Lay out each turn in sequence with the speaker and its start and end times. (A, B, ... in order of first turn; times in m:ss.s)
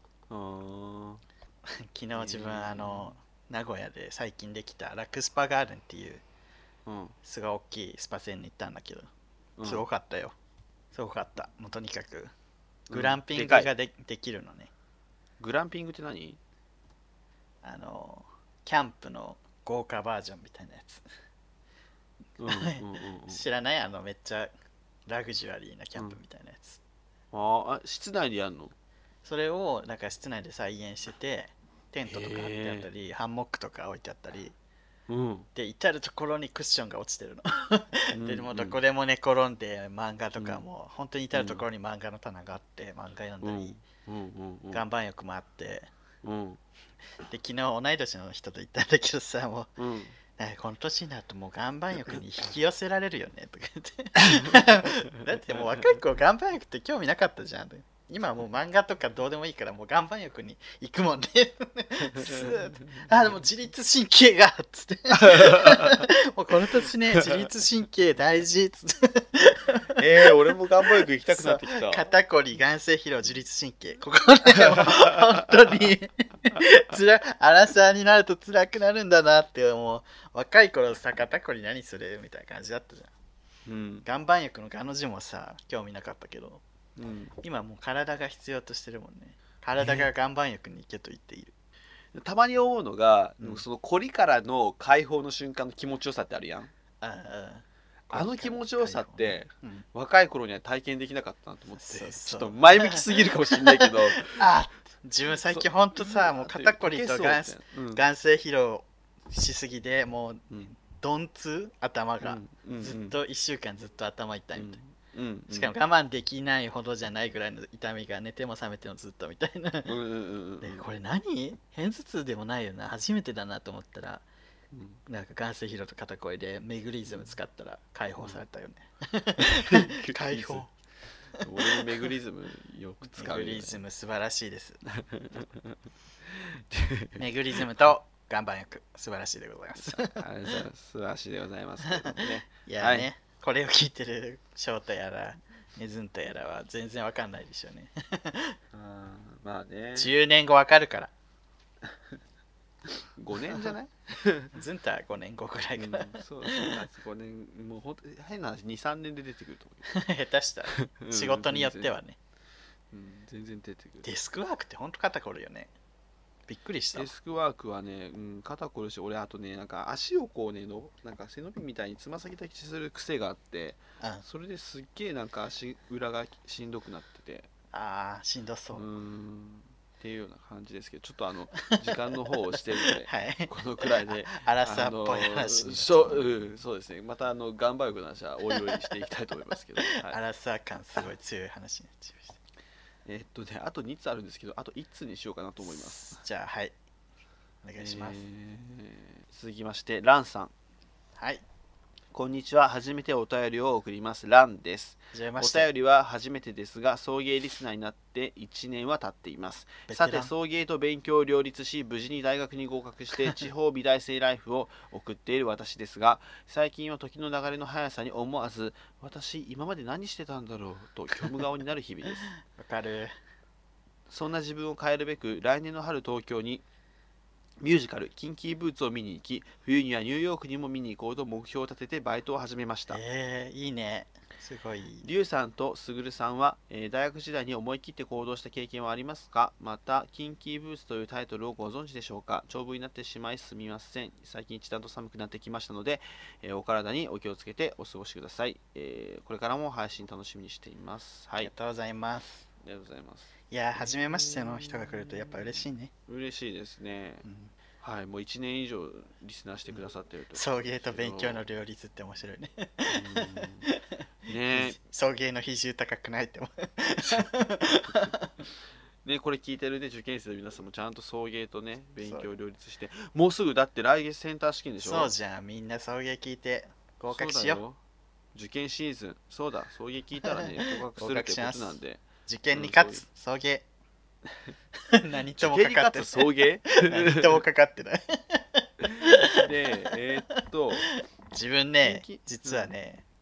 0:00.3-0:01.2 A
0:01.6-0:06.2 B
0:02.1-0:03.2 A
0:06.8-0:07.2 A
0:07.2-0:09.1 B
0:09.6-0:09.8 A
0:09.6-0:10.3 B
0:10.9-0:12.3 B
0:12.9-0:13.7 A
0:12.9-0:14.7 B
0:15.4-0:16.4 A
0:17.6-0:21.0 B
0:22.4-0:23.4 A
0:22.4-0:24.5 B
0:25.1-0:26.8 B
0:27.3-0:28.7 A
0:29.2-0:34.5 B
0:32.0-0:32.9 A
0:35.1-0:35.5 A
0:35.5-0:43.8 B
0:38.1-0:38.8 A
0:40.4-0:40.6 A
0:41.3-0:41.6 A
0:43.4-0:44.8 A
0:44.7-0:45.9 B
0:46.2-0:46.6 A
0:47.2-0:49.7 B
0:49.8-0:50.2 A
0:50.3-1:10.3 B
0:54.2-0:54.6 A
1:02.0-1:03.1 A
1:05.1-1:06.1 A
1:10.0-1:12.0 A
1:10.9-1:23.1 B
1:14.6-1:15.2 A
1:23.6-1:24.0 A
1:24.0-1:26.6 B
1:27.0-1:27.3 A
1:27.4-1:31.5 B
1:32.1-1:36.7 A
1:37.0-1:39.8 B
1:38.1-1:44.4 A
1:41.8-1:54.8 B
1:45.4-1:48.0 A
1:52.2-1:53.2 A
1:54.5-1:55.7 A
1:55.5-2:00.0 B
1:59.8-2:00.9 A
2:00.6-2:04.2 B
2:04.7-2:05.0 A
2:05.0-2:10.7 B
2:09.4-2:10.7 A
2:11.4-2:13.8 A
2:11.6-2:11.9 B
2:13.2-2:14.8 B
2:14.9-2:17.6 A
2:17.2-2:20.2 B
2:19.8-2:23.1 A
2:21.9-2:28.6 B
2:28.7-2:30.1 A
2:30.0-2:31.1 B
2:33.0-2:34.5 A
2:34.5-2:36.8 B
2:35.8-2:39.9 A
2:39.9-2:42.2 B
2:40.7-2:41.9 A
2:42.9-2:44.1 A
2:44.0-2:45.7 B
2:46.5-2:47.1 B
2:46.9-2:57.5 A
2:57.7-2:58.8 B
2:58.7-3:10.2 A
3:01.7-3:06.3 B
3:08.5-3:08.8 B
3:09.9-3:12.4 B
3:13.0-3:16.2 A
3:15.6-3:16.7 B
3:17.6-3:18.2 B
3:17.8-3:20.5 A
3:21.2-3:21.4 B
3:22.1-3:42.3 A
3:25.1-3:25.7 B
3:29.9-3:30.3 B
3:42.4-3:43.1 B
3:44.1-3:46.6 A
3:47.6-3:53.0 A
3:52.9-3:55.1 B
3:55.0-4:11.5 A
4:11.4-4:12.5 B
4:12.6-4:17.2 A
4:13.5-4:15.9 B
4:17.2-4:17.5 B
4:17.8-4:21.4 A
4:20.3-4:28.3 B
4:22.9-4:23.7 A
4:24.3-4:24.8 A
4:29.0-4:35.1 A
4:32.0-4:32.3 B
4:34.8-4:37.6 B
4:37.1-4:37.8 A
4:38.3-4:43.0 A
4:40.2-4:43.6 B
4:44.9-4:49.9 B
4:45.4-4:47.4 A
4:48.8-4:50.9 A
4:50.9-4:53.0 B
4:51.8-4:52.7 A